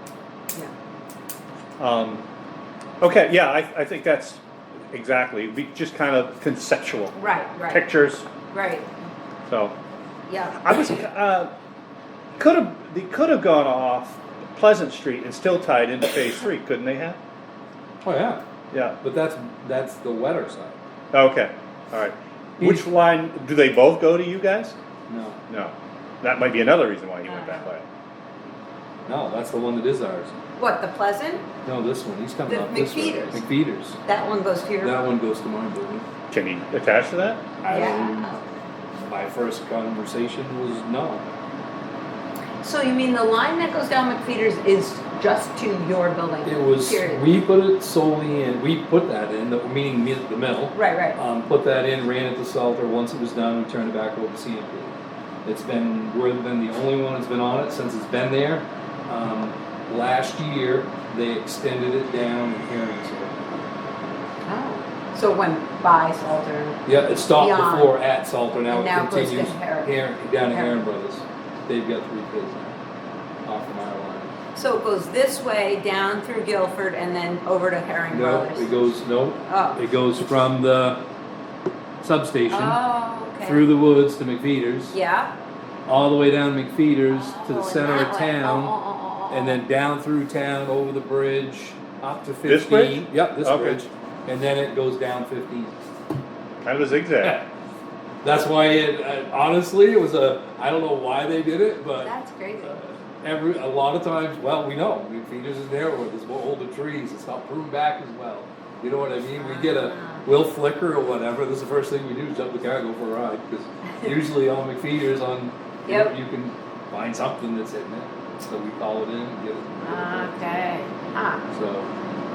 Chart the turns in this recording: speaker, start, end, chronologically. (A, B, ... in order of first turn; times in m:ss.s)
0:01.8-0:02.2 A
0:03.0-0:08.3 A
0:07.2-0:07.9 B
0:08.5-0:08.9 B
0:09.5-0:09.8 A
0:10.3-0:10.7 B
0:10.6-0:11.5 A
0:12.4-0:17.2 A
0:18.0-0:18.4 C
0:18.7-0:19.0 A
0:19.0-0:20.8 C
0:21.1-0:24.8 A
0:22.6-0:22.9 C
0:25.1-0:25.4 C
0:25.5-0:27.8 A
0:27.2-0:27.7 B
0:29.1-0:30.4 C
0:30.6-0:31.5 B
0:31.6-0:34.0 C
0:32.5-0:33.4 B
0:34.0-0:35.0 B
0:34.8-0:36.1 C
0:36.3-0:37.5 A
0:37.6-0:38.4 C
0:37.7-0:38.4 B
0:39.0-0:41.2 C
0:42.6-0:47.4 B
0:46.4-0:54.9 C
0:50.7-0:51.2 B
0:55.4-1:03.3 C
1:04.4-1:08.0 B
1:06.8-1:12.8 C
1:08.6-1:10.9 B
1:13.4-1:14.4 C
1:14.6-1:18.8 B
1:18.1-1:21.0 C
1:19.5-1:19.8 B
1:22.0-1:22.8 C
1:22.5-1:23.7 B
1:23.4-1:25.0 C
1:24.9-1:25.3 B
1:25.9-1:28.8 C
1:27.1-1:29.6 B
1:29.3-1:35.8 C
1:32.4-1:33.8 A
1:36.6-1:37.5 A
1:37.2-1:37.5 C
1:38.2-2:00.4 C
1:41.9-1:42.8 B
1:49.3-1:50.3 B
1:53.8-1:54.2 B
1:55.9-1:56.2 B
1:59.8-2:01.4 B
2:01.5-2:01.9 C